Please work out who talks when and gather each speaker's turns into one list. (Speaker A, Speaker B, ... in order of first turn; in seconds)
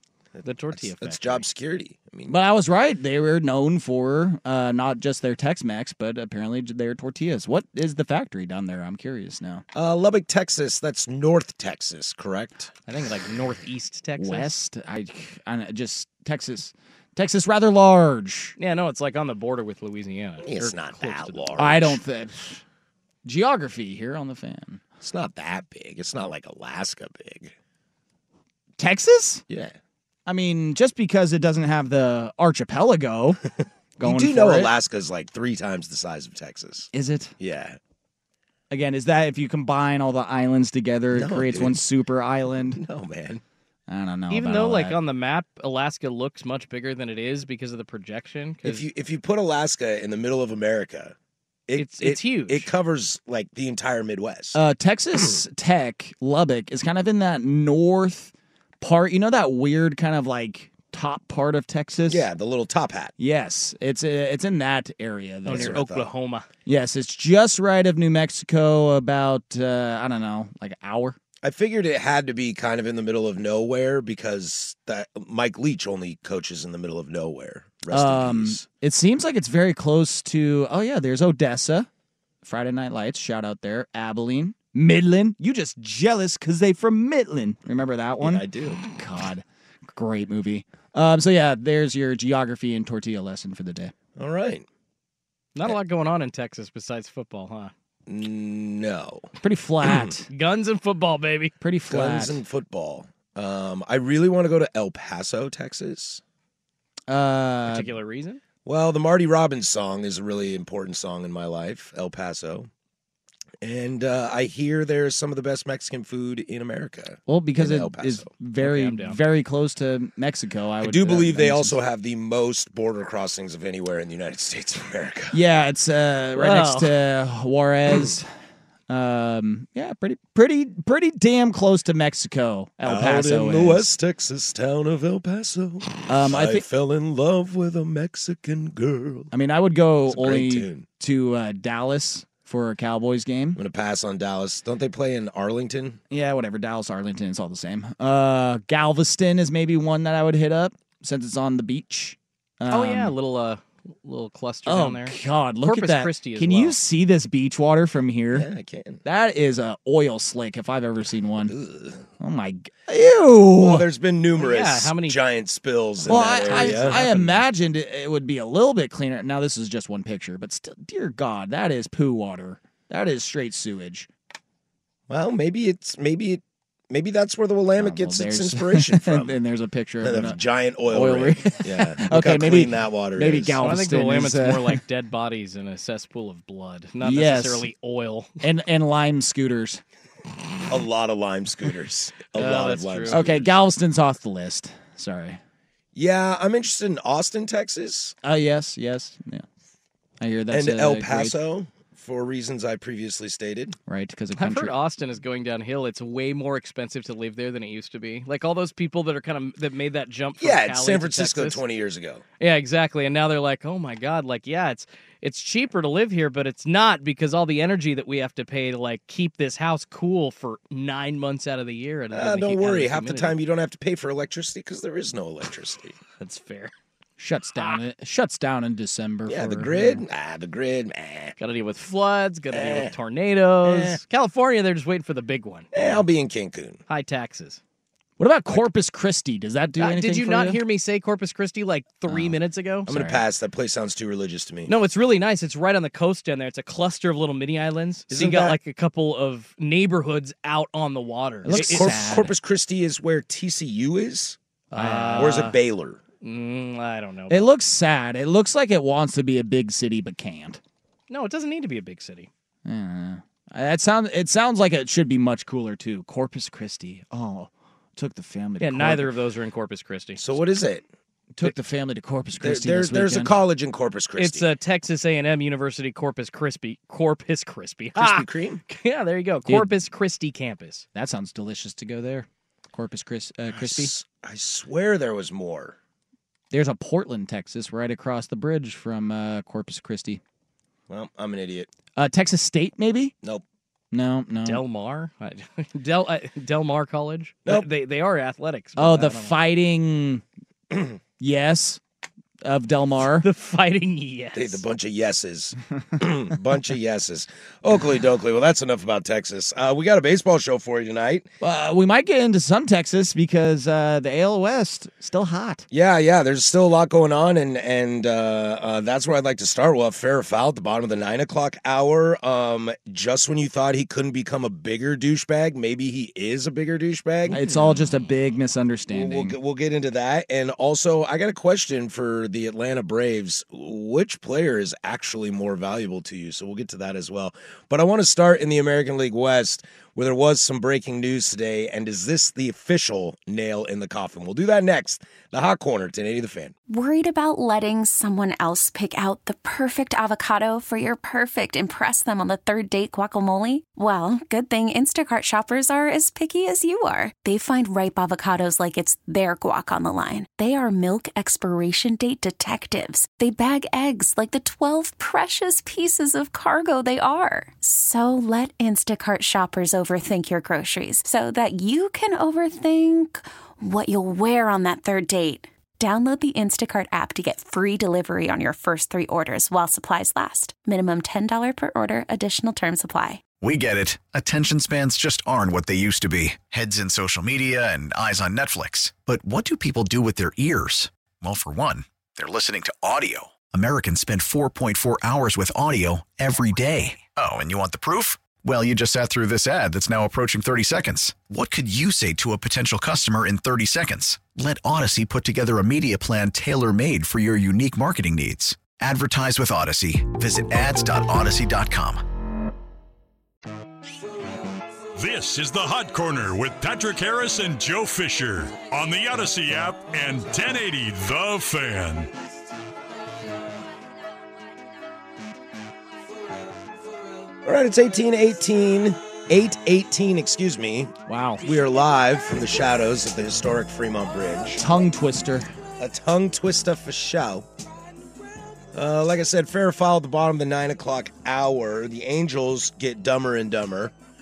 Speaker A: 0.3-2.4, 9.7-12.7, 20.4-22.0, 25.0-27.5, 29.5-29.7, 34.0-37.8, 41.1-41.8, 42.6-43.4, 48.6-51.1, 51.7-54.6, 62.1-63.1, 65.5-66.1, 71.4-78.6, 88.2-88.8, 94.2-94.7, 98.1-99.3, 99.8-100.1, 101.9-106.2, 108.6-112.7, 113.6-118.3, 120.8-125.4, 132.8-139.3, 140.1-140.8, 143.6-146.0, 158.3-159.0, 161.5-162.1, 163.5-167.0, 175.1-179.3, 180.0-183.6, 190.7-193.5, 195.9-198.2, 200.5-203.8, 210.4-212.2, 222.1-225.9, 229.3-231.3, 232.5-232.9, 233.6-234.0, 235.7-236.8, 242.9-244.7, 248.1-248.6, 251.5-254.4, 255.2-256.0, 270.2-270.8, 272.4-274.5, 277.9-278.6, 283.5-285.8, 290.9-291.7, 300.7-301.0, 304.3-311.3, 315.7-327.4, 328.9-346.5, 427.4-434.6, 435.8-437.4, 438.7-443.9
Speaker B: 0.4-1.5, 12.9-14.5, 18.6-21.8, 44.3-48.9, 51.8-52.7, 65.5-66.5, 95.5-97.7, 100.3-101.5, 107.7-108.4, 118.6-119.2, 126.3-127.0, 152.7-156.8, 164.4-165.2, 166.1-167.4, 183.6-188.4, 192.3-193.2, 204.3-211.6, 212.4-223.4, 226.2-226.7, 231.4-236.0, 236.9-237.6, 239.8-242.9, 244.7-252.1, 254.7-255.6, 256.2-257.5, 261.1-262.3, 268.6-270.4, 274.1-280.9, 294.4-299.4, 303.1-304.6, 327.3-328.0
Speaker C: 2.3-9.6, 14.2-18.5, 21.6-22.6, 23.2-24.8, 28.8-29.4, 30.2-33.4, 34.0-34.7, 36.9-37.3, 38.7-42.8, 43.9-45.0, 54.5-62.3, 63.2-65.8, 66.7-71.2, 77.9-81.9, 82.4-93.9, 99.4-100.3, 101.6-102.4, 107.1-107.9, 117.3-121.8, 125.3-128.3, 128.9-133.9, 136.1-136.6, 139.3-143.6, 146.1-153.1, 154.7-158.5, 159.0-161.5, 162.2-163.8, 166.1-174.1, 177.8-180.4, 180.9-184.8, 187.0-187.7, 188.4-189.8, 193.1-195.4, 198.2-199.4, 200.2-201.4, 203.9-204.7, 227.2-230.0, 238.2-240.6, 242.1-242.3, 242.8-243.2, 251.4-252.3, 254.8-255.4, 257.3-260.6, 262.6-269.1, 271.3-273.3, 280.9-283.9, 286.5-290.2, 291.9-293.1, 293.9-294.6, 298.8-300.2, 301.2-301.8, 302.4-303.3, 311.4-315.6, 327.3-329.4, 431.1-431.4, 434.6-435.5
Speaker D: 346.7-383.3
Speaker E: 383.3-412.0
Speaker F: 414.9-422.1